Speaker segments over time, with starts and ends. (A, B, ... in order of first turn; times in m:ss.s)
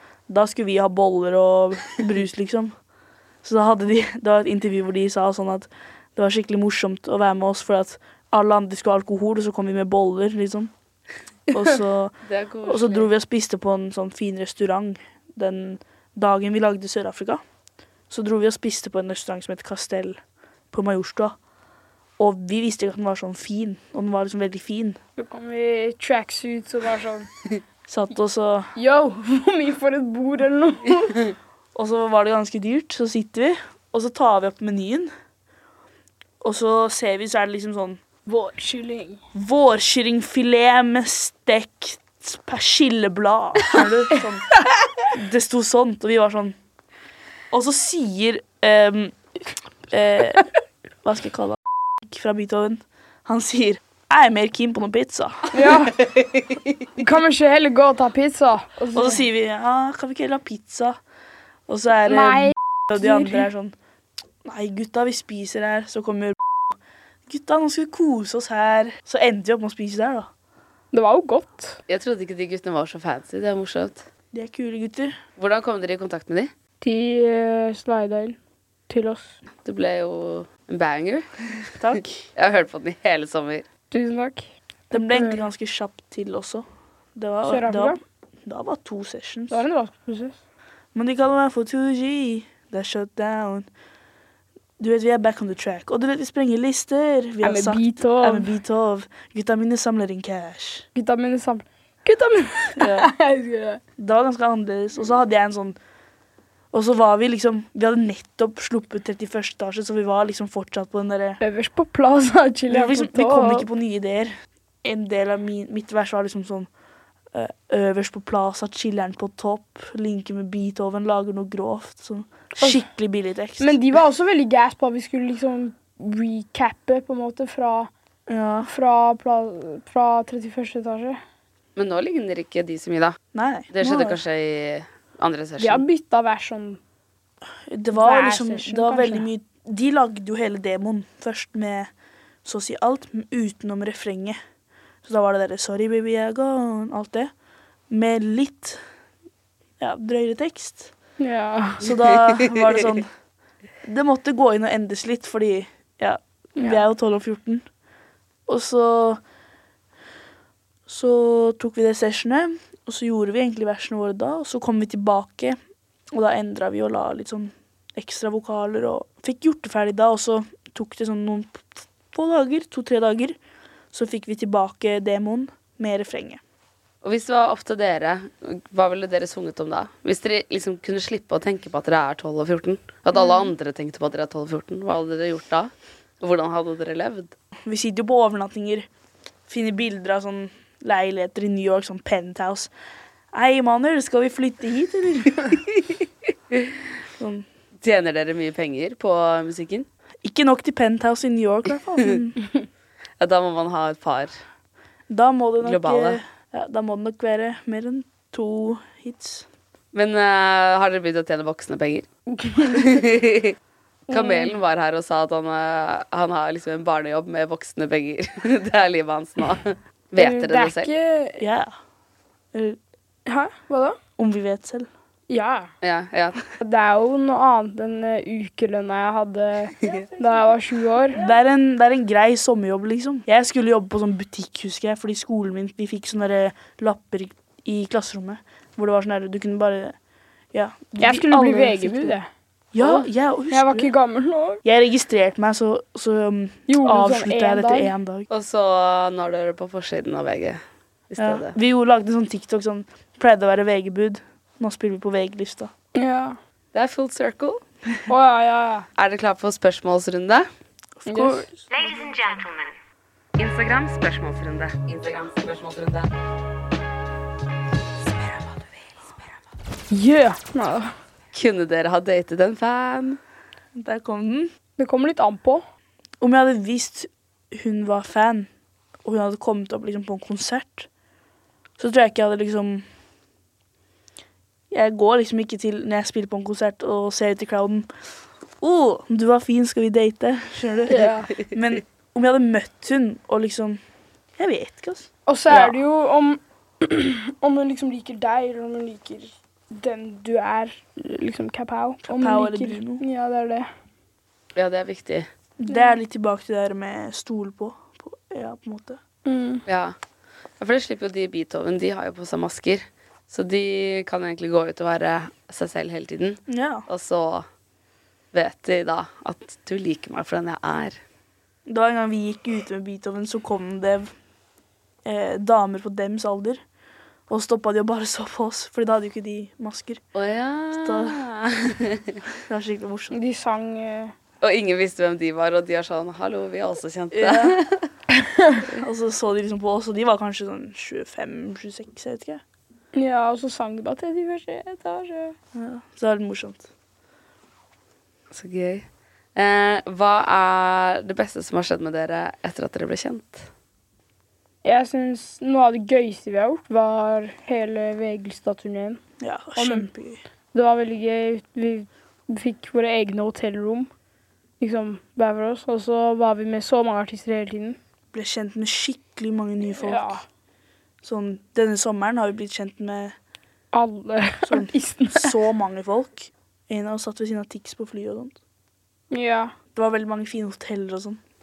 0:00.3-0:02.7 A
0:03.4-0:10.7 A
0:11.5-0:17.4 A
0:12.2-0:13.1 B
0:18.1-0:20.2 A
0:20.7-0:21.4 A
0:22.2-0:25.0 A
0:25.2-0:27.3 C
0:27.9-0:28.7 A
0:28.8-0:31.3 C
0:31.7-0:35.1 A
0:36.4-0:38.0 A
0:38.2-0:39.2 C
0:39.3-0:44.5 A
0:45.1-0:46.6 A
0:47.5-0:49.1 A
0:49.9-0:50.5 A
0:51.0-0:55.6 A
0:55.5-0:56.1 C
0:57.0-0:59.2 C
0:58.9-1:01.0 A
1:01.7-1:03.7 A
1:02.1-1:03.5 C
1:04.4-1:10.3 A
1:10.9-1:11.8 C
1:11.9-1:14.0 B
1:14.3-1:15.2 A
1:15.4-1:16.5 B
1:16.8-1:18.4 C
1:18.9-1:19.3 C
1:19.6-1:21.2 B
1:21.8-1:22.2 A
1:21.9-1:23.6 B
1:23.9-1:25.4 C
1:24.9-1:29.6 A
1:27.4-1:28.0 C
1:29.5-1:30.4 C
1:30.9-1:33.7 A
1:34.8-1:40.9 A
1:37.4-1:38.5 C
1:41.0-1:43.8 C
1:42.8-1:43.1 A
1:44.0-1:45.8 A
1:46.7-1:51.4 A
1:51.4-1:53.6 C
1:52.7-1:54.3 A
1:54.8-1:56.7 A
1:57.3-2:03.8 A
2:03.6-2:07.9 C
2:08.3-2:08.7 A
2:08.6-2:11.2 C
2:11.8-2:13.2 B
2:13.3-2:14.2 A
2:13.7-2:15.8 B
2:15.6-2:16.8 C
2:17.7-2:21.9 A
2:17.9-2:19.3 C
2:22.4-2:24.4 A
2:25.0-2:27.3 A
2:27.9-2:28.8 A
2:29.8-2:30.9 A
2:31.2-2:31.8 C
2:31.8-2:33.1 A
2:33.8-2:37.6 A
2:38.5-2:39.2 A
2:40.9-2:45.6 A
2:46.1-2:53.4 A
2:53.9-2:56.4 A
2:57.0-3:07.3 B
3:07.6-3:08.9 A
3:09.5-3:12.7 A
3:13.3-3:15.6 A
3:17.2-3:17.4 A
3:17.8-3:19.9 B
3:20.2-3:22.4 A
3:23.2-3:24.3 B
3:25.1-3:29.5 A
3:25.6-3:26.2 B
3:29.9-3:33.5 B
3:32.4-3:33.0 C
3:34.1-3:34.5 C
3:34.1-3:40.9 B
3:40.2-3:41.4 C
3:41.4-3:41.7 A
3:42.5-3:42.8 A
3:43.2-3:44.0 C
3:44.2-3:44.9 A
3:45.3-3:45.7 C
3:45.8-3:46.4 B
3:46.6-3:51.3 C
3:51.1-4:00.0 A
4:00.5-4:02.2 A
4:01.0-4:02.3 C
4:02.7-4:03.9 A
4:02.8-4:03.0 B
4:03.5-4:04.6 C
4:04.6-4:08.3 A
4:06.7-4:07.9 C
4:08.3-4:11.5 B
4:11.2-4:15.7 A
4:15.9-4:16.4 C
4:16.7-4:17.6 B
4:18.1-4:18.9 C
4:19.0-4:20.5 B
4:21.0-4:21.8 A
4:21.1-4:21.4 C
4:21.8-4:22.7 B
4:23.4-4:26.1 B
4:28.0-4:28.7 B
4:29.9-4:30.9 C
4:31.3-4:33.2 B
4:33.8-4:34.5 A
4:34.8-4:35.6 C
4:36.2-4:38.5 A
4:39.0-4:40.9 A
4:41.8-4:42.8 A
4:44.7-4:47.9 A
4:48.6-4:53.8 A
4:50.9-4:51.4 C
4:54.4-4:55.8 A
4:55.3-5:03.7 C
5:02.0-5:03.0 A
5:04.5-5:05.3 B
5:05.6-5:09.0 A
5:09.2-5:09.6 C
5:09.6-5:09.9 B
5:10.6-5:17.4 B
5:16.5-5:16.8 A
5:18.3-5:21.0 B
5:21.7-5:24.1 A
5:25.0-5:26.6 A
5:27.3-5:30.0 A
5:30.1-5:32.2 B
5:30.7-5:31.2 A
5:32.3-5:33.2 A
5:33.1-5:34.1 C
5:34.4-5:37.9 B
5:37.1-5:37.6 A
5:38.2-5:38.6 C
5:38.6-5:42.4 A
5:42.9-5:45.3 C
5:45.5-5:46.6 A
5:48.3-5:53.5 B
5:54.6-5:59.0 C
5:59.2-6:00.2 A
5:59.6-5:59.9 C
6:00.5-6:03.9 C
6:04.6-6:07.8 C
6:08.1-6:10.2 A
6:09.8-6:10.2 C
6:11.0-6:13.2 A
6:13.7-6:15.3 C
6:14.4-6:18.4 A
6:19.1-6:19.5 C
6:19.7-6:21.2 A